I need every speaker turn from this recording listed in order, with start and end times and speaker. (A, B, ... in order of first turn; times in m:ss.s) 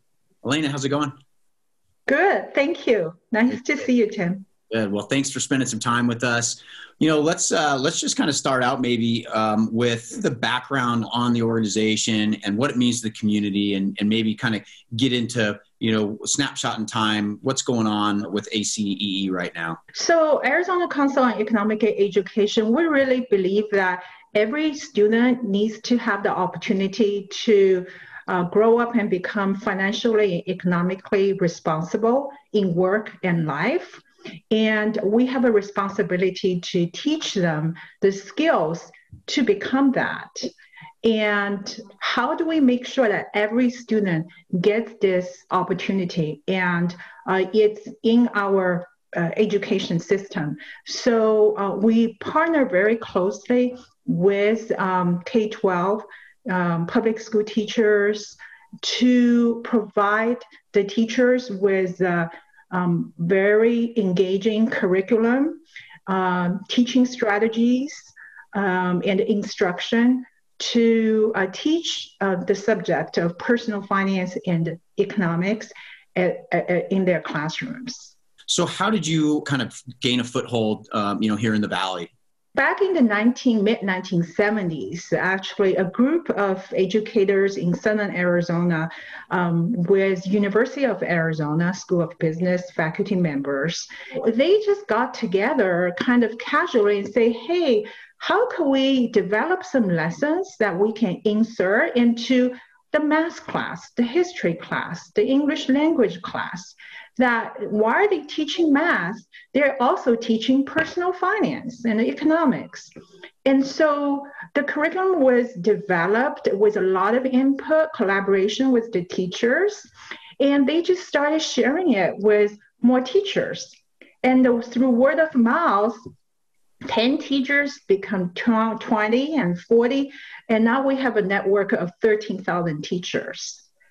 0:00.4-0:01.2 A
0:02.1-0:04.4 B
0:04.7-0:19.8 A
0:19.9-0:40.5 B
0:41.0-1:18.1 B
1:18.5-1:22.1 A
1:22.5-1:52.9 B
1:53.4-1:59.9 B
2:00.4-2:06.0 B
2:06.8-2:13.6 B